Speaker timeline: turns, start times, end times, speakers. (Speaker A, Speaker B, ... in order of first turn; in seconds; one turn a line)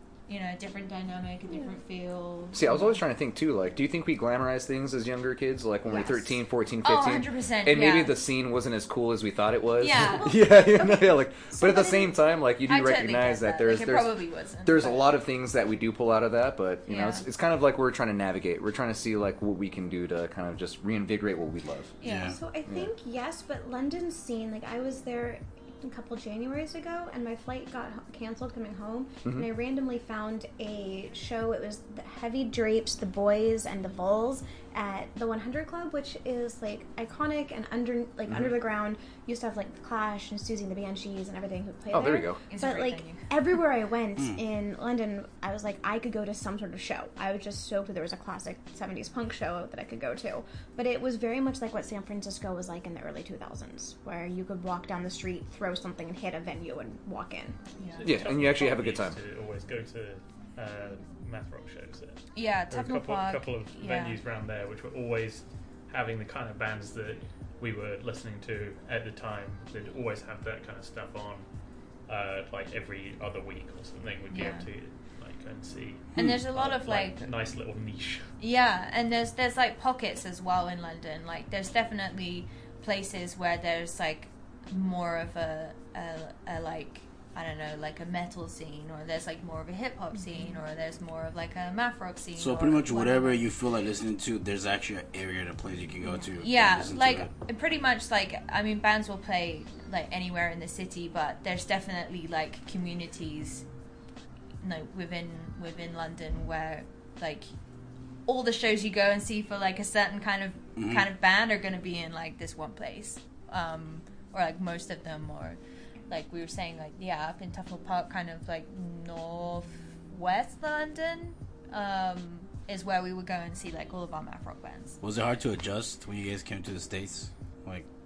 Speaker A: 0.3-3.0
Speaker B: 2.5-21.9
Speaker C: 5.9-6.2
Speaker A: 6.8-8.2
Speaker A: 9.8-10.3
Speaker C: 10.0-12.1
Speaker A: 12.7-15.1
Speaker A: 16.9-17.2
Speaker A: 22.0-22.3
Speaker D: 22.0-22.4
Speaker C: 22.3-57.6
Speaker B: 41.9-42.4
Speaker A: 42.5-43.2
Speaker A: 57.8-58.1
Speaker E: 58.0-71.5
Speaker B: 58.0-59.2
Speaker A: 62.3-64.2
Speaker E: 72.1-78.3
Speaker A: 74.3-74.7
Speaker A: 76.2-77.3
Speaker A: 78.4-93.4
Speaker D: 92.4-97.3
Speaker A: 96.4-103.6
Speaker A: 104.6-107.5
Speaker A: 108.3-125.0
Speaker D: 110.8-111.1
Speaker D: 125.0-127.8